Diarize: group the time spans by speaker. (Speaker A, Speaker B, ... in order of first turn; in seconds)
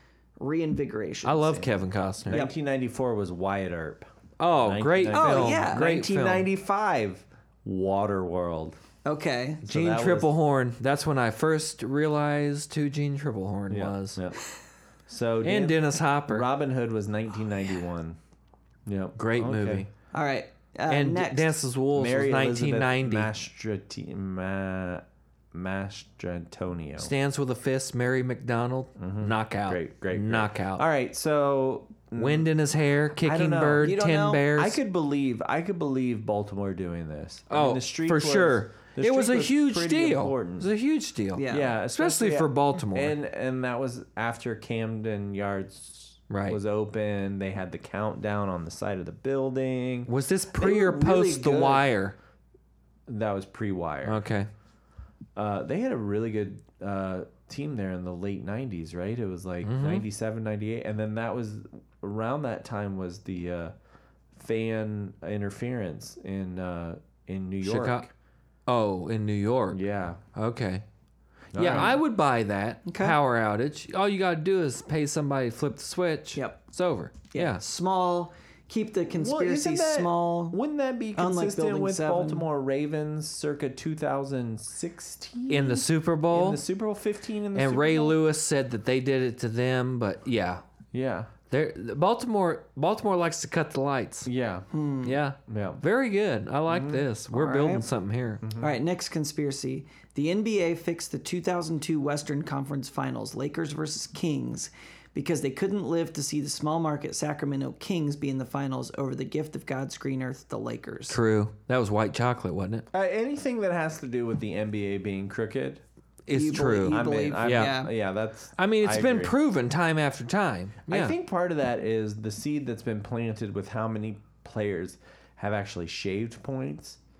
Speaker A: 0.4-1.7, 5.1-6.0, 9.0-9.6, 20.1-21.6, 33.8-34.5, 41.3-41.7, 72.8-73.2, 76.3-76.6, 77.3-80.6, 81.2-82.5, 94.7-95.2, 97.3-97.8, 98.6-111.2, 116.3-117.9
Speaker B: 1.2-2.4, 4.4-6.5, 9.7-14.2, 15.4-16.5, 19.2-19.9, 20.9-23.3, 27.0-30.8, 32.1-34.8, 37.5-43.1, 46.3-46.6, 50.1-52.1, 54.0-54.5, 59.6-60.0, 67.6-68.0, 68.7-69.8, 70.3-70.8, 71.5-77.6, 85.5-86.6, 87.5-90.6, 91.5-94.3, 95.0-98.4, 111.1-112.8, 116.3-117.8, 118.6-121.1
Speaker C: 2.3-4.1, 4.6-8.8, 9.6-10.3, 13.7-14.4, 15.1-18.2, 18.9-19.8, 21.9-27.1, 29.0-32.5, 33.2-33.9, 34.5-40.7, 41.5-51.9, 53.1-54.2, 55.4-63.7, 64.3-68.1, 69.7-70.2, 71.5-72.0, 79.2-88.2, 90.9-91.3, 94.2-94.7, 95.5-95.8, 96.7-97.0, 98.4-98.7, 112.9-115.8, 116.8-119.3, 120.9-127.0